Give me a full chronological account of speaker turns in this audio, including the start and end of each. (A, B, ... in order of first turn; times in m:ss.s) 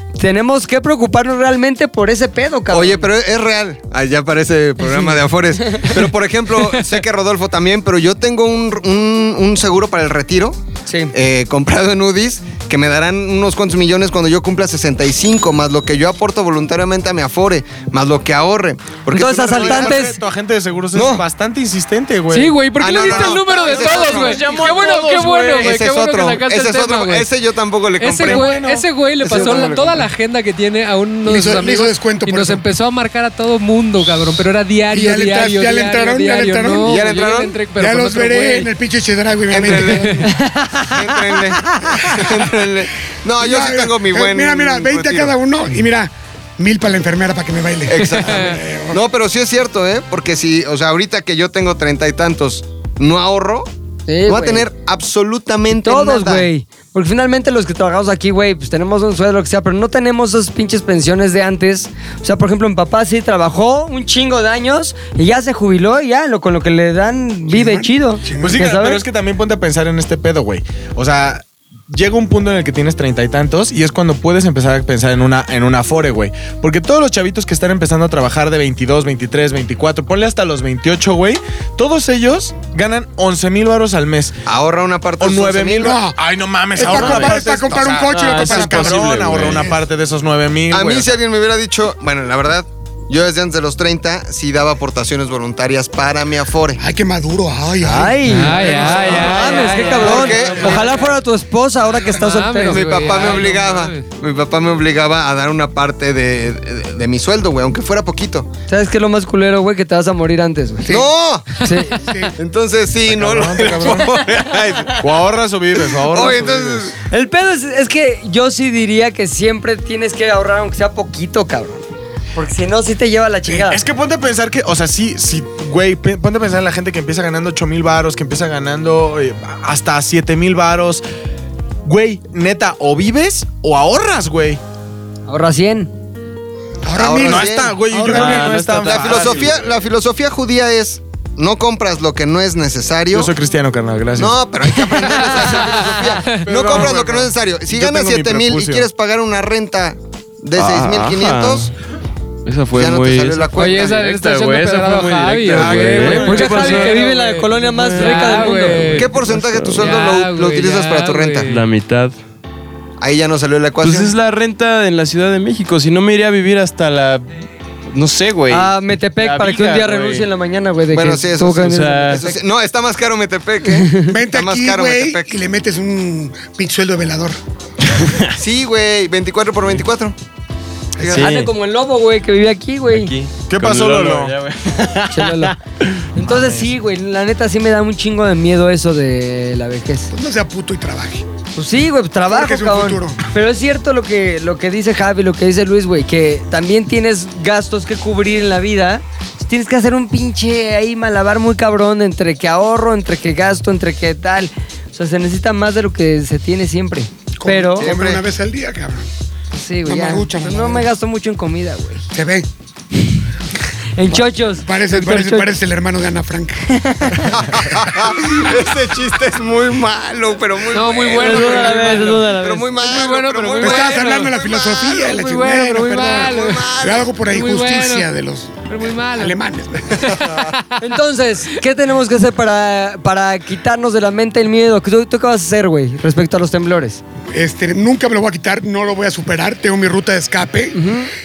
0:00.2-0:03.1 A
0:02.7-0:10.6 B
0:10.9-0:11.1 A
0:11.1-0:20.1 B
0:19.1-0:20.2 A
0:19.5-0:22.6 C
0:20.9-0:21.2 B
0:22.3-0:27.3 D
0:22.7-0:24.7 B
0:23.0-0:25.8 E
0:25.6-0:28.6 B
0:28.0-0:38.7 D
0:28.2-0:29.8 C
0:29.2-0:30.1 B
0:31.2-0:32.6 F
0:34.9-0:37.1 F
0:36.8-0:37.7 B
0:37.7-0:40.3 F
0:39.5-0:40.3 B
0:39.7-0:40.2 D
0:40.2-0:42.2 A
0:40.8-0:45.4 B
0:43.4-0:49.0 F
0:47.9-0:53.7 B
0:48.0-0:48.6 D
0:54.1-0:54.7 A
0:54.3-0:56.5 B
0:55.8-1:09.0 A
1:07.5-1:08.7 F
1:08.4-1:24.4 C
1:24.4-1:26.0 B
1:25.2-1:31.2 C
1:25.8-1:26.2 F
1:26.7-1:29.8 F
1:28.4-1:29.6 E
1:29.0-1:29.5 B
1:30.7-1:36.8 B
1:36.8-1:38.7 F
1:37.8-1:43.0 A
1:38.2-1:40.7 D
1:38.6-1:41.2 B
1:38.8-1:39.2 C
1:40.4-1:40.8 E
1:42.0-1:44.1 D
1:42.7-1:48.5 B
1:48.7-1:51.0 A
1:50.9-1:51.6 B
1:51.6-1:52.0 A
1:52.0-1:52.4 F
1:52.4-1:55.0 B
1:53.1-1:56.9 C
1:55.9-1:57.0 B
1:57.1-2:01.8 A
2:02.4-2:03.8 A
2:03.5-2:11.0 C
2:11.8-2:14.6 C
2:15.3-2:15.9 A
2:16.8-2:18.6 F
2:17.0-2:23.3 B
2:17.2-2:19.8 C
2:18.0-2:19.6 E
2:23.1-2:28.9 C
2:24.2-2:31.7 B
2:25.2-2:26.8 D
2:30.6-2:31.8 E
2:32.4-2:40.0 E
2:32.8-2:34.0 B
2:33.6-2:39.1 D
2:35.5-2:36.8 C
2:36.1-2:39.0 A
2:38.9-2:41.5 B
2:39.8-2:41.6 D
2:41.5-2:42.2 E
2:43.0-2:44.1 B
2:43.8-2:50.3 E
2:48.5-2:52.4 A
2:50.9-2:55.3 B
2:51.5-2:52.2 E
2:53.7-2:54.1 A
2:54.0-2:57.4 F
2:58.4-3:00.2 B
3:01.0-3:01.3 B
3:01.0-3:03.1 A
3:01.0-3:01.5 E
3:02.9-3:05.9 E
3:03.5-3:04.4 C
3:05.1-3:05.6 A
3:06.1-3:10.1 A
3:06.2-3:06.7 C
3:10.1-3:11.3 F
3:11.6-3:27.9 A
3:12.3-3:13.2 F
3:27.4-3:29.1 F
3:27.8-3:28.2 B
3:29.5-3:32.1 A
3:29.9-3:30.9 F
3:32.1-3:32.5 F
3:34.0-3:35.5 A
3:34.1-3:37.7 F
3:36.7-3:37.4 A
3:37.3-3:45.2 B
3:40.7-3:44.3 D
3:41.1-3:43.0 A
3:43.6-3:50.4 F
3:45.1-3:48.1 D
3:46.1-3:47.2 B
3:48.7-3:49.4 D
3:50.2-3:51.0 D
3:50.8-3:57.0 A
3:57.3-4:00.8 F
4:00.7-4:01.1 A